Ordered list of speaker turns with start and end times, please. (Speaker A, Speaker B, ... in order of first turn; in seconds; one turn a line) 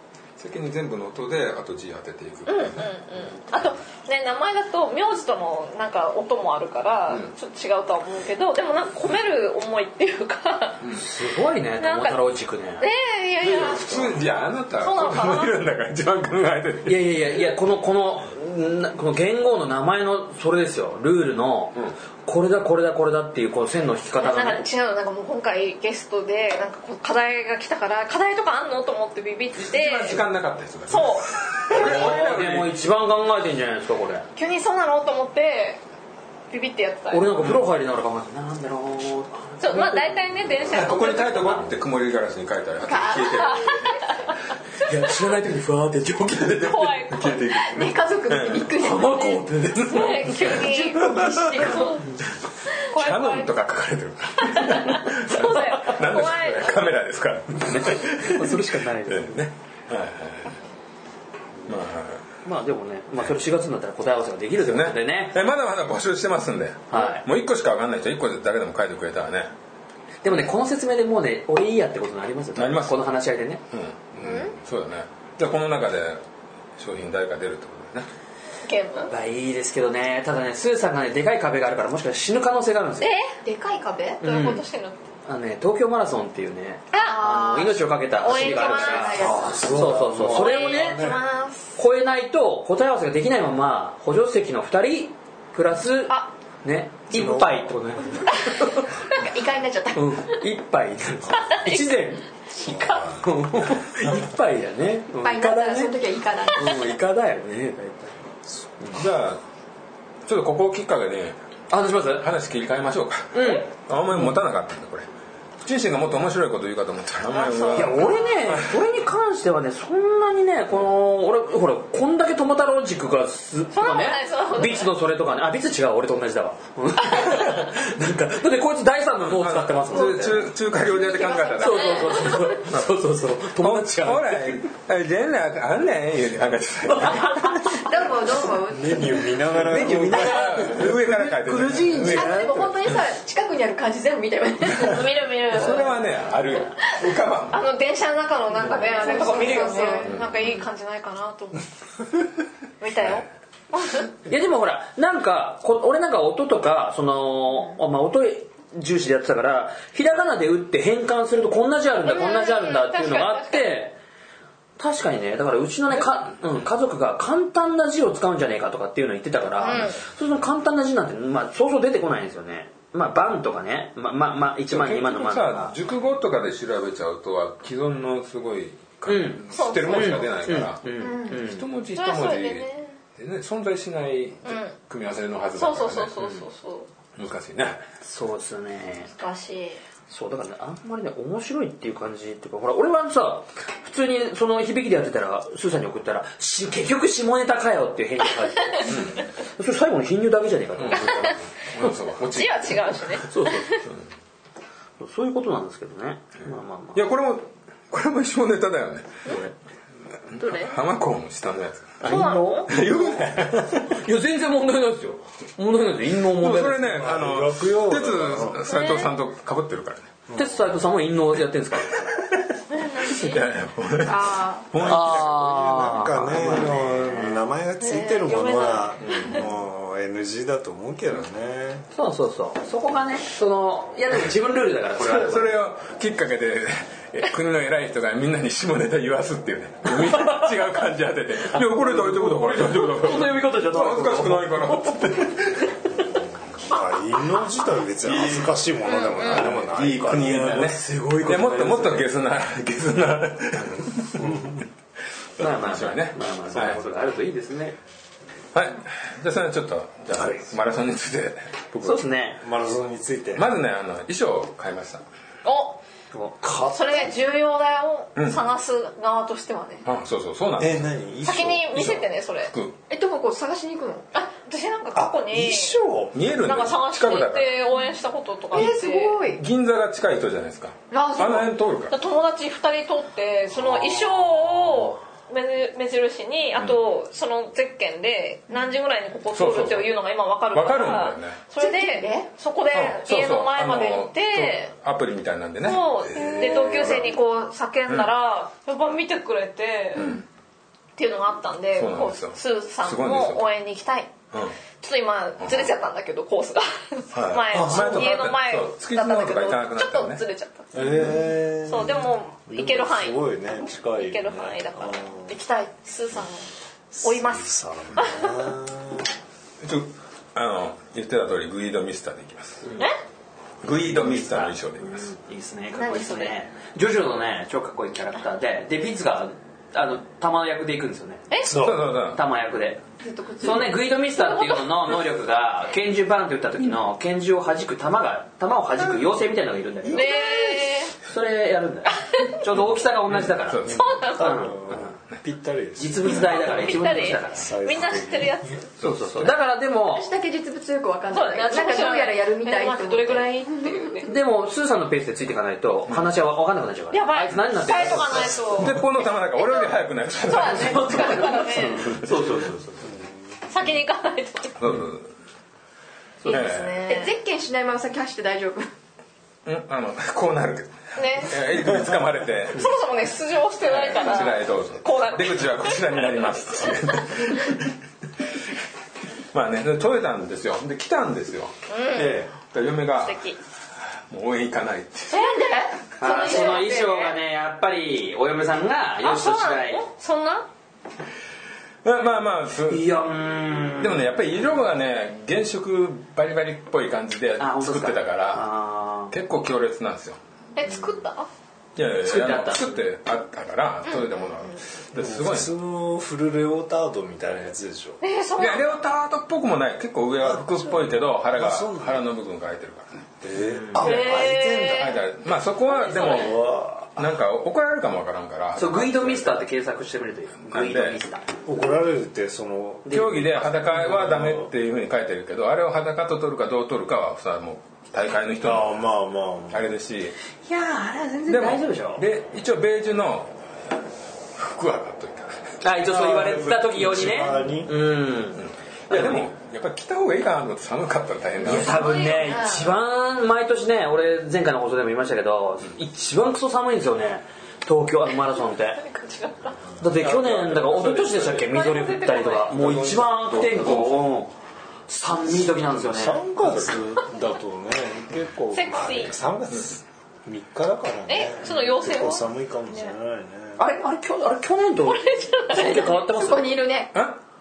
Speaker A: 0.4-2.9
Speaker B: 2.5-10.8
Speaker C: 10.9-12.9
Speaker B: 11.8-12.2
Speaker B: 12.8-15.6
Speaker A: 13.4-17.3
Speaker C: 16.9-24.6
Speaker B: 24.2-30.2
Speaker A: 29.6-32.7
Speaker B: 30.9-31.3
Speaker C: 31.7-34.3
Speaker B: 34.4-35.8
Speaker B: 36.5-37.3
Speaker C: 37.1-40.8
Speaker B: 39.6-41.7
Speaker A: 40.6-44.0
Speaker D: 42.8-43.9
Speaker B: 43.3-44.9
Speaker C: 44.8-47.0
Speaker A: 46.4-48.8
Speaker B: 46.6-47.5
Speaker D: 47.5-49.5
Speaker C: 48.8-50.6
Speaker B: 49.8-51.1
Speaker D: 50.5-52.1
Speaker C: 51.6-52.2
Speaker B: 51.7-52.0
Speaker B: 52.7-53.5
Speaker A: 52.9-60.6
Speaker B: 54.4-56.9
Speaker C: 57.6-59.4
Speaker A: 61.6-62.2
Speaker C: 62.4-65.4
Speaker A: 64.6-69.5
Speaker C: 66.9-67.2
Speaker C: 70.2-73.6
Speaker A: 72.5-73.0
Speaker A: 73.7-76.2
Speaker B: 74.2-74.5
Speaker A: 76.8-78.1
Speaker B: 78.6-79.1
Speaker C: 79.1-83.1
Speaker B: 83.0-83.4
Speaker D: 83.4-84.2
Speaker C: 84.2-84.6
Speaker B: 84.2-85.0
Speaker C: 85.2-91.2
Speaker B: 86.9-87.3
Speaker D: 86.9-90.0
Speaker B: 88.2-89.4
Speaker E: 89.2-91.2
Speaker B: 90.2-91.8
Speaker C: 91.8-98.9
Speaker E: 97.1-97.8
Speaker D: 99.1-100.1
Speaker C: 99.9-102.2
Speaker B: 101.3-103.0
Speaker E: 102.6-103.3
Speaker C: 102.9-106.0
Speaker D: 105.2-106.9
Speaker C: 106.5-108.2
Speaker A: 108.9-109.4
Speaker A: 110.2-111.4
Speaker C: 111.7-112.3
Speaker A: 112.0-115.1
Speaker C: 113.3-114.3
Speaker A: 115.6-118.6
Speaker B: 117.3-118.4
Speaker C: 117.7-130.4
Speaker B: 123.7-124.9
Speaker A: 129.3-132.8
Speaker D: 130.2-132.3
Speaker C: 131.6-134.6
Speaker B: 131.7-132.5
Speaker A: 133.6-137.7
Speaker C: 136.9-137.7
Speaker D: 137.7-139.3
Speaker E: 138.7-140.7
Speaker A: 139.5-143.0
Speaker C: 139.9-142.6
Speaker D: 142.0-145.1
Speaker B: 144.7-146.0
Speaker A: 145.4-147.6
Speaker B: 147.5-151.6
Speaker D: 148.9-150.3
Speaker C: 149.1-149.9
Speaker A: 150.0-150.4
Speaker B: 152.8-154.1
Speaker C: 154.2-163.9
Speaker B: 162.0-163.8
Speaker C: 164.8-175.7
Speaker B: 169.6-170.0
Speaker A: 174.7-186.1
Speaker C: 179.1-181.7
Speaker B: 179.5-180.2
Speaker D: 181.0-181.4
Speaker B: 181.9-182.9
Speaker B: 184.4-184.7
Speaker B: 185.5-186.9
Speaker A: 187.2-187.8
Speaker C: 188.0-189.1
Speaker B: 189.2-189.8
Speaker C: 190.1-201.9
Speaker A: 198.9-199.2
Speaker A: 200.8-203.2
Speaker B: 200.9-201.4
Speaker B: 202.3-203.8
Speaker C: 203.3-203.8
Speaker C: 205.0-207.0
Speaker A: 206.9-209.3
Speaker C: 209.2-209.5
Speaker A: 210.3-213.9
Speaker B: 210.4-210.8
Speaker C: 212.0-217.1
Speaker B: 212.0-212.7
Speaker A: 216.3-220.1
Speaker E: 217.0-218.6
Speaker B: 218.6-219.1
Speaker E: 220.3-220.6
Speaker C: 220.3-222.0
Speaker A: 221.9-222.4
Speaker B: 222.7-223.5
Speaker A: 222.9-225.4
Speaker D: 224.0-224.7
Speaker E: 224.7-231.9
Speaker C: 224.8-227.4
Speaker B: 227.8-229.4
Speaker A: 229.0-229.3
Speaker C: 231.9-235.6
Speaker A: 234.9-245.7
Speaker C: 239.9-240.5
Speaker C: 241.5-245.7
Speaker E: 246.1-250.7
Speaker A: 248.1-254.3
Speaker B: 248.8-249.4
Speaker C: 250.1-252.1
Speaker E: 254.2-254.6
Speaker A: 255.4-256.8
Speaker C: 255.4-257.8
Speaker A: 258.5-262.1
Speaker C: 261.8-262.4
Speaker E: 262.4-263.5
Speaker A: 263.3-265.0
Speaker B: 265.4-265.8
Speaker C: 266.1-266.6
Speaker E: 266.4-267.0
Speaker B: 266.7-269.9
Speaker A: 268.1-268.4
Speaker A: 269.8-270.9
Speaker E: 270.6-271.6
Speaker B: 271.2-272.5
Speaker A: 271.7-272.7
Speaker D: 272.9-274.1
Speaker B: 274.1-275.8
Speaker E: 274.9-276.1
Speaker A: 276.1-277.6
Speaker B: 276.4-279.2
Speaker D: 278.5-279.4
Speaker A: 279.3-281.9
Speaker D: 280.9-281.5
Speaker B: 281.9-294.7
Speaker A: 289.3-289.9
Speaker A: 290.5-291.4
Speaker D: 291.6-292.3
Speaker A: 292.7-297.1
Speaker B: 295.6-300.2
Speaker D: 296.2-296.9
Speaker A: 299.9-300.2
Speaker B: 300.9-304.1
Speaker A: 301.8-303.4
Speaker A: 304.3-304.6
Speaker B: 304.8-313.2
Speaker A: 305.4-305.7
Speaker A: 307.1-310.2
Speaker E: 307.5-308.1
Speaker E: 310.7-315.4
Speaker A: 310.8-311.2
Speaker B: 314.0-316.5
Speaker E: 316.9-319.1
Speaker B: 317.0-318.5
Speaker A: 319.6-322.7
Speaker A: 323.6-325.1
Speaker C: 323.9-331.2
Speaker B: 325.8-326.3
Speaker B: 331.3-331.6
Speaker E: 331.4-331.8
Speaker A: 331.4-332.2
Speaker C: 332.1-332.8
Speaker D: 333.0-333.9
Speaker C: 333.4-340.2
Speaker B: 334.1-334.6
Speaker B: 339.9-340.9
Speaker C: 341.0-343.6
Speaker B: 342.0-342.4
Speaker A: 343.1-345.2
Speaker E: 343.7-346.4
Speaker B: 343.7-344.4
Speaker C: 344.1-344.9
Speaker C: 345.8-347.5
Speaker B: 346.4-348.7
Speaker E: 347.3-348.4
Speaker C: 348.8-350.1
Speaker A: 348.8-349.3
Speaker D: 349.9-353.9
Speaker B: 351.1-354.1
Speaker C: 354.0-358.7
Speaker B: 356.9-359.7
Speaker A: 357.9-361.4
Speaker B: 360.2-362.0
Speaker C: 360.4-362.9
Speaker B: 363.5-364.6
Speaker A: 364.6-365.1
Speaker B: 366.2-367.1
Speaker A: 366.2-366.9
Speaker D: 366.9-368.7
Speaker A: 369.4-372.7
Speaker B: 370.9-371.5
Speaker B: 372.5-377.7
Speaker A: 373.6-377.7
Speaker A: 379.3-383.2
Speaker B: 381.7-382.2
Speaker B: 383.0-383.4
Speaker A: 384.1-385.2
Speaker B: 385.1-387.1
Speaker D: 385.2-386.8
Speaker C: 386.0-389.8
Speaker B: 389.0-390.5
Speaker A: 391.8-392.9
Speaker C: 392.7-394.1
Speaker A: 393.8-398.5
Speaker C: 397.4-399.1
Speaker A: 399.1-400.2
Speaker B: 400.6-401.3
Speaker A: 401.8-405.5
Speaker C: 402.0-402.8
Speaker B: 403.9-404.2
Speaker E: 404.9-408.0
Speaker B: 408.0-408.7
Speaker A: 408.4-413.1
Speaker E: 411.3-412.0
Speaker E: 413.2-415.0
Speaker C: 413.5-413.8
Speaker B: 413.8-415.0
Speaker A: 413.8-416.4
Speaker B: 415.7-416.4
Speaker E: 415.9-417.1
Speaker A: 416.9-419.4
Speaker C: 418.6-421.2
Speaker A: 420.5-421.0
Speaker E: 421.4-424.5
Speaker A: 422.9-428.8
Speaker C: 422.9-423.2
Speaker E: 428.4-429.7
Speaker A: 429.5-430.1
Speaker C: 430.4-432.0
Speaker A: 431.3-433.3
Speaker A: 434.4-435.6
Speaker C: 435.6-439.3
Speaker E: 435.8-437.7
Speaker A: 438.4-441.9
Speaker C: 441.4-448.8
Speaker B: 441.7-442.7
Speaker B: 448.3-449.6
Speaker C: 449.8-454.3
Speaker A: 449.8-451.7
Speaker B: 451.5-452.6
Speaker A: 452.5-454.1
Speaker C: 454.9-456.2
Speaker E: 455.7-463.6
Speaker A: 456.4-456.8
Speaker B: 458.5-459.1
Speaker B: 461.1-462.2
Speaker C: 463.6-466.6
Speaker B: 464.9-466.0
Speaker D: 466.1-467.0